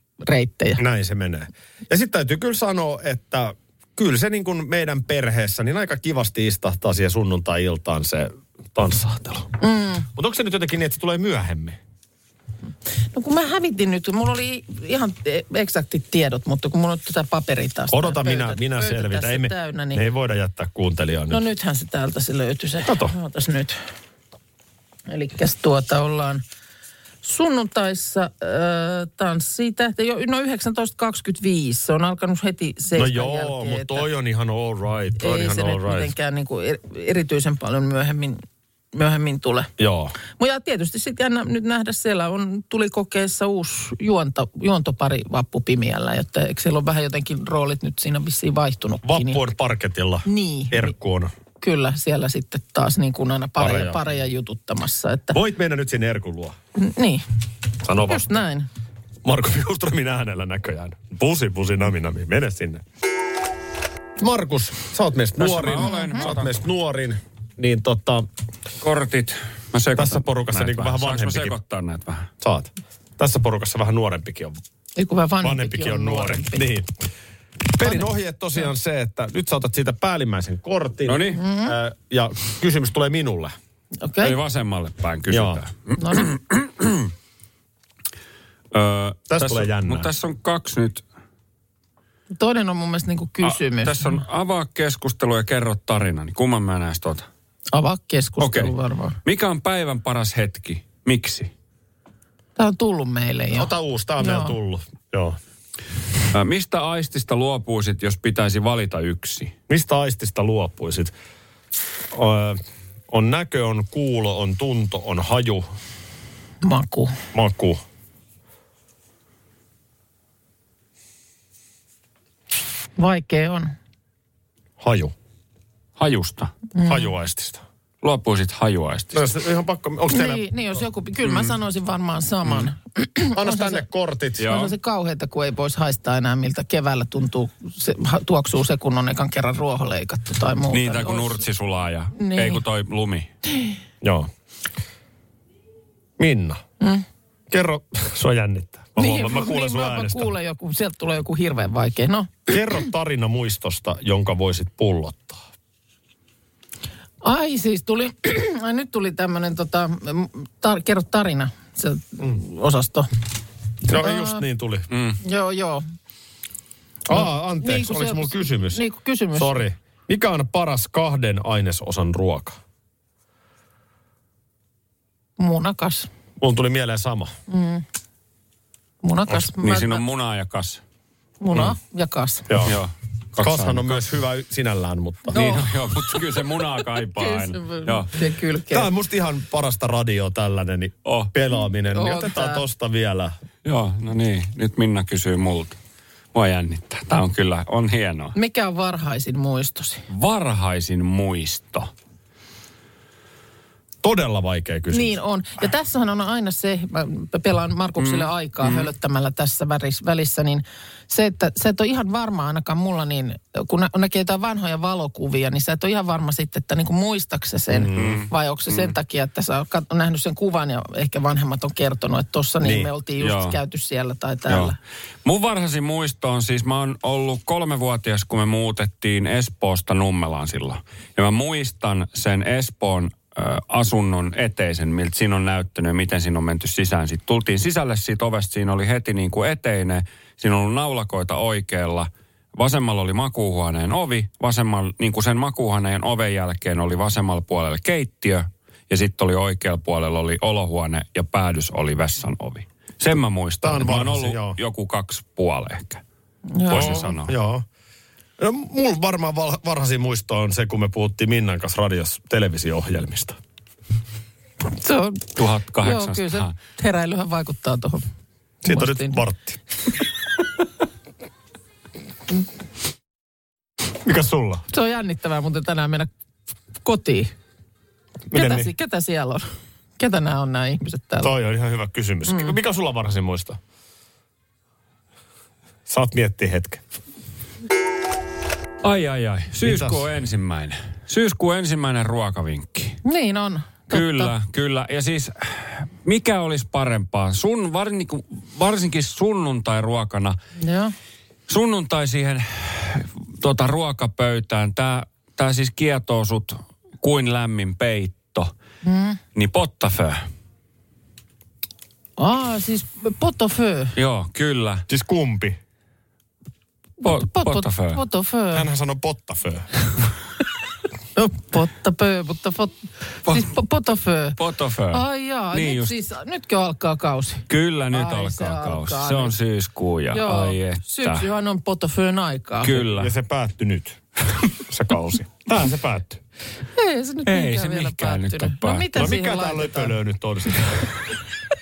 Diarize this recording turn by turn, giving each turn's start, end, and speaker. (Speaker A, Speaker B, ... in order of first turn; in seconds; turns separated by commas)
Speaker A: 0.2-0.8, Speaker B: 0.8-9.5, Speaker A: 9.6-10.1, Speaker B: 10.1-11.8, Speaker A: 13.1-20.0, Speaker B: 17.9-21.4, Speaker A: 21.3-23.8, Speaker B: 22.9-23.1, Speaker A: 25.1-26.4, Speaker A: 27.2-34.1, Speaker B: 33.0-36.1, Speaker A: 35.2-38.4, Speaker A: 38.9-39.7, Speaker B: 39.8-40.1, Speaker A: 40.4-49.4, Speaker B: 49.0-51.3, Speaker A: 50.2-50.9, Speaker A: 51.5-55.4, Speaker B: 53.6-54.0, Speaker B: 55.3-56.6, Speaker A: 56.8-57.2, Speaker B: 57.8-58.4, Speaker A: 58.0-58.7, Speaker B: 59.2-62.8, Speaker B: 64.2-68.3, Speaker C: 65.4-66.5, Speaker A: 65.8-66.2, Speaker C: 68.8-72.3, Speaker B: 70.0-71.6, Speaker B: 72.4-74.6, Speaker A: 75.0-76.7, Speaker B: 75.4-76.9, Speaker B: 77.7-83.5, Speaker C: 81.1-81.4, Speaker A: 81.3-81.7, Speaker A: 84.0-84.3, Speaker C: 84.2-87.1, Speaker B: 85.3-85.6, Speaker A: 86.0-86.3, Speaker C: 88.7-91.0, Speaker B: 89.3-90.1, Speaker A: 92.3-94.2, Speaker C: 93.4-97.3, Speaker A: 97.7-99.2, Speaker C: 98.4-98.7, Speaker C: 99.2-101.5, Speaker A: 102.6-104.5, Speaker B: 103.5-105.4, Speaker C: 106.3-109.5, Speaker B: 109.7-111.1, Speaker B: 112.1-115.7, Speaker A: 116.6-117.2, Speaker B: 117.3-117.8, Speaker A: 123.0-123.7, Speaker B: 124.8-125.1, Speaker C: 126.0-126.5, Speaker A: 126.8-127.1, Speaker B: 126.8-127.6, Speaker C: 128.0-129.3, Speaker B: 129.1-130.4, Speaker A: 130.1-133.8, Speaker C: 131.2-131.6, Speaker C: 132.4-132.7, Speaker B: 133.3-134.5, Speaker C: 134.4-134.8, Speaker A: 134.4-141.4, Speaker C: 140.7-143.3, Speaker A: 142.2-142.6, Speaker B: 144.0-144.3, Speaker B: 146.2-146.6, Speaker B: 147.5-150.3, Speaker A: 149.0-152.6, Speaker B: 152.5-155.4, Speaker A: 157.2-163.1, Speaker B: 163.8-164.9, Speaker A: 163.9-164.4, Speaker C: 164.9-165.2, Speaker A: 165.2-165.8, Speaker B: 167.1-172.6, Speaker A: 167.1-169.6, Speaker A: 175.4-176.1, Speaker B: 176.4-177.3, Speaker A: 177.5-177.8, Speaker A: 179.0-180.0, Speaker C: 179.3-180.8, Speaker A: 181.4-182.5, Speaker B: 182.5-182.8, Speaker C: 182.6-184.1, Speaker B: 183.4-185.4, Speaker C: 185.3-188.1, Speaker A: 185.3-185.7, Speaker A: 187.1-188.9, Speaker B: 188.7-193.4, Speaker C: 191.1-191.3, Speaker A: 191.8-192.6, Speaker C: 193.6-195.8, Speaker C: 196.3-198.3, Speaker A: 198.3-200.0, Speaker C: 200.1-201.9, Speaker B: 204.0-205.2, Speaker A: 204.9-224.8, Speaker C: 208.0-208.9, Speaker B: 217.7-218.2, Speaker C: 217.9-218.9, Speaker B: 222.6-222.9, Speaker C: 223.2-223.6, Speaker C: 224.5-256.0, Speaker B: 253.6-254.6, Speaker A: 256.5-257.1, Speaker C: 256.7-257.3, Speaker B: 256.7-257.6, Speaker B: 258.4-263.4, Speaker A: 264.6-268.0, Speaker C: 265.4-266.5, Speaker B: 268.6-269.6, Speaker A: 268.6-269.2, Speaker B: 274.0-274.6, Speaker A: 274.7-276.1, Speaker A: 276.8-277.3, Speaker B: 278.3-278.7, Speaker A: 278.3-279.4, Speaker A: 280.0-281.3, Speaker B: 281.2-283.6, Speaker A: 282.2-282.6, Speaker B: 285.9-286.8, Speaker C: 288.8-293.0, Speaker B: 289.6-290.1, Speaker A: 293.0-294.3, Speaker C: 293.9-300.4, Speaker A: 300.6-300.9, Speaker C: 301.5-308.5, Speaker A: 308.8-309.2, Speaker C: 309.3-310.3, Speaker A: 312.2-313.9, Speaker C: 313.9-314.8, Speaker B: 314.9-315.6, Speaker A: 317.0-318.7, Speaker C: 317.0-318.0, Speaker B: 318.5-319.7, Speaker A: 321.1-324.4, Speaker C: 324.4-325.9, Speaker A: 324.9-329.3, Speaker C: 327.5-331.3, Speaker A: 330.1-332.8, Speaker C: 332.6-333.1, Speaker B: 332.7-334.0, Speaker B: 334.6-336.2, Speaker A: 336.7-339.9, Speaker C: 337.2-339.1, Speaker B: 338.9-340.9